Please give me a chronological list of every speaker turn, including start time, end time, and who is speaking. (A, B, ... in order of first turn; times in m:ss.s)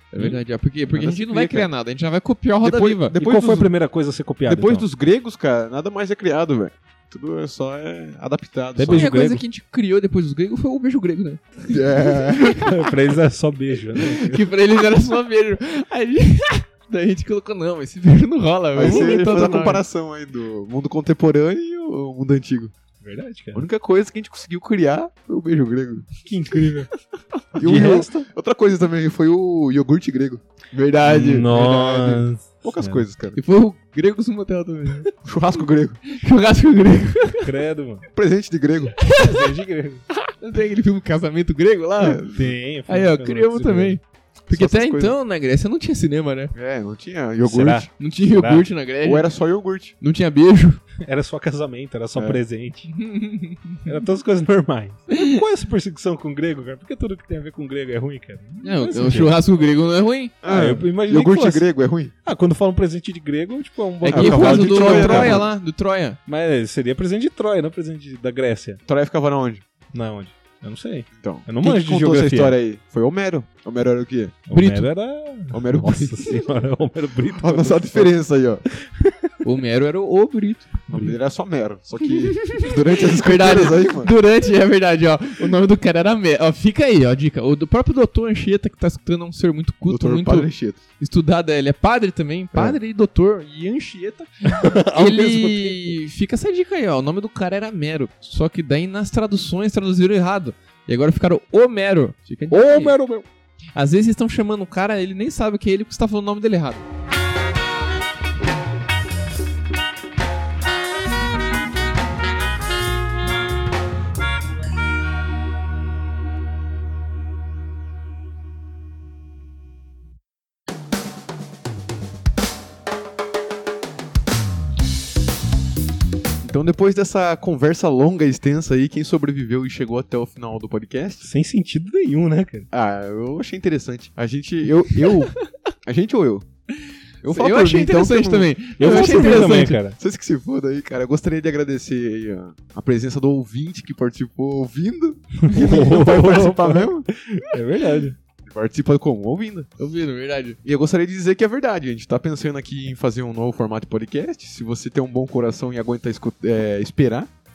0:00.1-0:03.1 A
0:00.2-0:00.4 B
0:00.9-0:01.7 C
0:02.6-0:03.7 C
0:03.2-0:04.8 B
0:04.4-0:09.1 C
0:08.8-0:09.4 B
0:08.9-0:12.8 A
0:11.6-0:12.7 C
0:12.4-0:14.4 B
0:14.0-0:19.8 A
0:18.7-0:22.7 C
0:18.8-0:19.2 B
0:23.0-0:23.6 B
0:23.5-0:26.1 C
0:26.2-0:26.9 B
0:27.5-0:33.4 C
0:27.6-0:28.2 B
0:30.7-0:31.5 A
0:31.0-0:33.0 B
0:33.3-0:35.1 A
0:35.2-0:36.0 C
0:36.0-0:37.5 A
0:37.4-0:38.0 B
0:38.0-0:39.0 C
0:39.0-0:39.6 A
0:39.1-0:40.0 B
0:40.2-0:42.2 A
0:42.0-0:42.5 C
0:42.3-0:44.0 B
0:42.9-0:46.5 A
0:44.5-0:45.1 C
0:46.5-0:47.9 C
0:47.4-0:48.6 B
0:48.0-0:49.3 A
0:49.0-0:49.9 C
0:50.0-0:50.8 A
0:51.0-0:52.9 B
0:52.2-0:52.4 C
0:52.9-0:54.0 A
0:53.8-0:59.4 B
0:55.1-0:55.4 A
0:58.6-1:00.4 A
1:00.4-1:02.1 C
1:00.4-1:01.7 B
1:02.2-1:05.5 B
1:04.0-1:06.2 A
1:04.1-1:05.5 C
1:06.3-1:08.8 B
1:08.9-1:09.6 C
1:09.9-1:12.6 B
1:11.1-1:14.4 C
1:14.5-1:19.3 B
1:14.5-1:14.9 A
1:15.5-1:16.4 C
1:17.4-1:18.6 C
1:19.4-1:20.9 A
1:20.9-1:24.1 C
1:22.1-1:42.9 A
1:29.9-1:30.8 C
1:32.5-1:32.8 C
1:34.4-1:36.0 B
1:42.5-1:43.2 B
1:43.7-1:46.8 A
2:06.4-2:11.3 C
2:11.2-2:12.7 B
2:12.7-2:16.4 C
2:17.2-2:27.1 C
2:17.2-2:19.8 A
2:18.8-2:20.0 B
2:25.4-2:28.2 B
2:28.4-2:29.7 C
2:29.8-2:30.6 A
2:30.6-2:37.3 C